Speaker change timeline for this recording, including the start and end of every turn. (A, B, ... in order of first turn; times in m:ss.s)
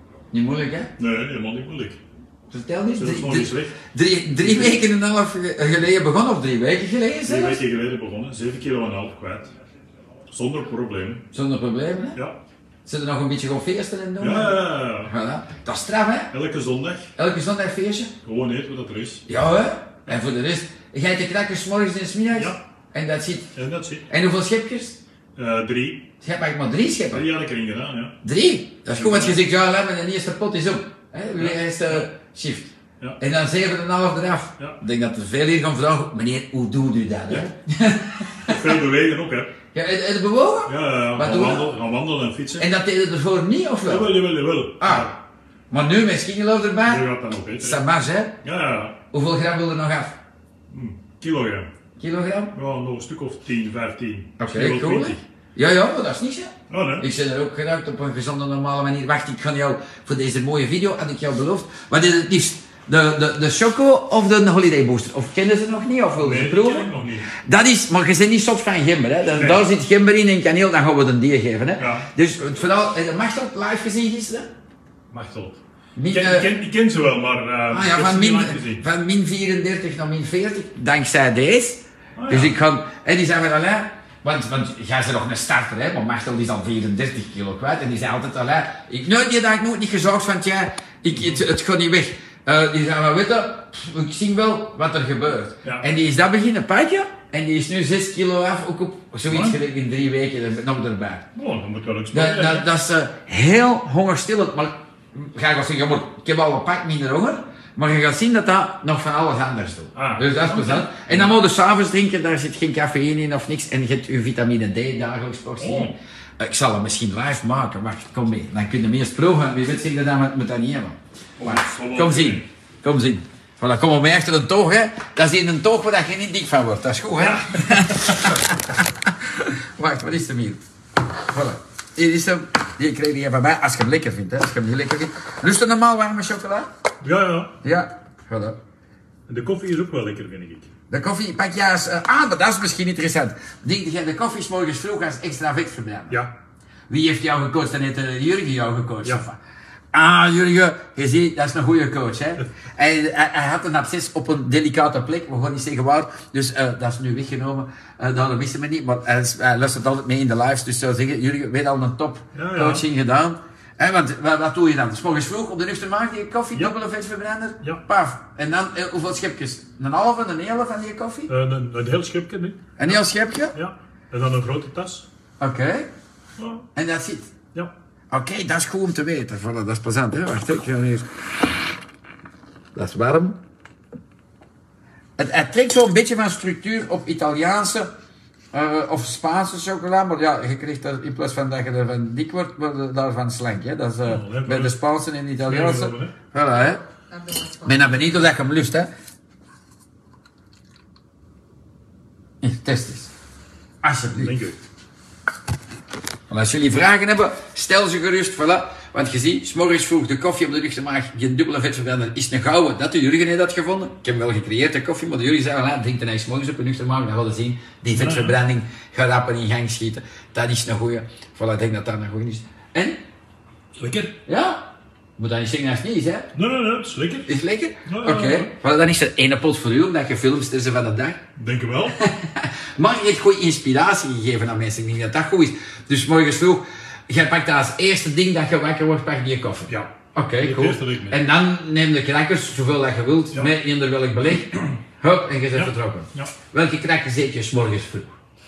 0:00.3-0:00.9 A
0:01.0-0:02.0 B
0:02.5-0:07.6 A
0:03.0-0:03.7 B
0:04.4-0:04.8 B
0:07.3-0:09.5 B
0:10.3-0:11.2 B
0:11.3-0:12.2 A
0:12.8-0:16.3 A
0:14.2-0:15.1 B
0:16.3-0:17.1 B
0:17.2-0:18.1 A
0:18.2-0:19.2 B
0:19.3-0:23.5 A
0:22.3-0:22.6 B
0:23.5-0:24.0 B
0:24.1-0:25.0 A
0:25.4-0:26.1 B
0:26.2-0:27.3 A
0:27.1-0:28.1 B
0:28.2-0:38.6 A
0:28.9-0:29.4 B
0:31.4-0:32.0 B
0:38.4-0:39.5 B
0:39.7-0:41.7 A
0:40.6-0:42.7 B
0:42.6-0:44.2 A
0:43.8-0:45.2 B
0:44.8-0:45.1 A
0:45.7-0:47.0 A
0:46.8-0:47.8 B
0:47.6-0:48.4 A
0:48.4-0:49.0 B
0:49.1-0:50.2 A
0:50.7-0:51.7 B
0:52.0-0:52.5 A
0:52.5-0:55.2 B
0:54.4-1:14.5 A
0:56.7-0:57.1 B
1:06.2-1:07.3 B
1:09.2-1:09.7 B
1:11.8-1:12.1 B
1:15.1-1:15.6 B
1:16.0-1:16.5 A
1:16.1-1:18.8 B
1:17.7-1:41.3 A
1:22.2-1:22.6 B
1:39.3-1:39.6 B
1:41.3-1:42.7 B
1:42.1-2:10.6 A
1:49.9-1:51.3 B
1:55.6-1:55.9 B
2:01.4-2:02.4 B
2:07.2-2:08.2 B
2:11.3-2:16.7 A
2:17.0-2:17.5 B
2:17.6-2:18.6 A
2:19.3-2:20.7 B
2:20.9-2:26.2 A
2:26.9-2:29.4 A
2:29.9-2:51.3 A
2:42.3-2:42.8 B
2:51.3-2:52.7 B
2:52.8-2:53.5 A
2:53.5-2:55.1 B
2:55.4-2:55.9 A
2:56.4-2:56.7 B
2:56.7-2:57.3 A
2:58.1-3:01.1 A
3:02.7-3:03.4 A
3:05.2-3:07.9 A
3:08.5-3:16.8 A
3:14.0-3:14.8 B
3:15.4-3:16.1 B
3:17.4-3:18.9 A
3:22.4-3:23.1 A
3:23.8-3:24.3 A
3:24.2-3:24.6 B
3:26.3-3:43.0 A
3:37.9-3:38.4 B
3:43.8-3:44.2 B
3:44.2-3:44.6 A
3:45.2-3:46.3 A
3:46.3-3:47.3 B
3:47.3-3:51.2 A
3:47.8-3:48.5 B
3:51.4-3:52.0 B
3:52.0-4:08.1 A
3:59.7-4:01.2 B
4:05.5-4:06.3 B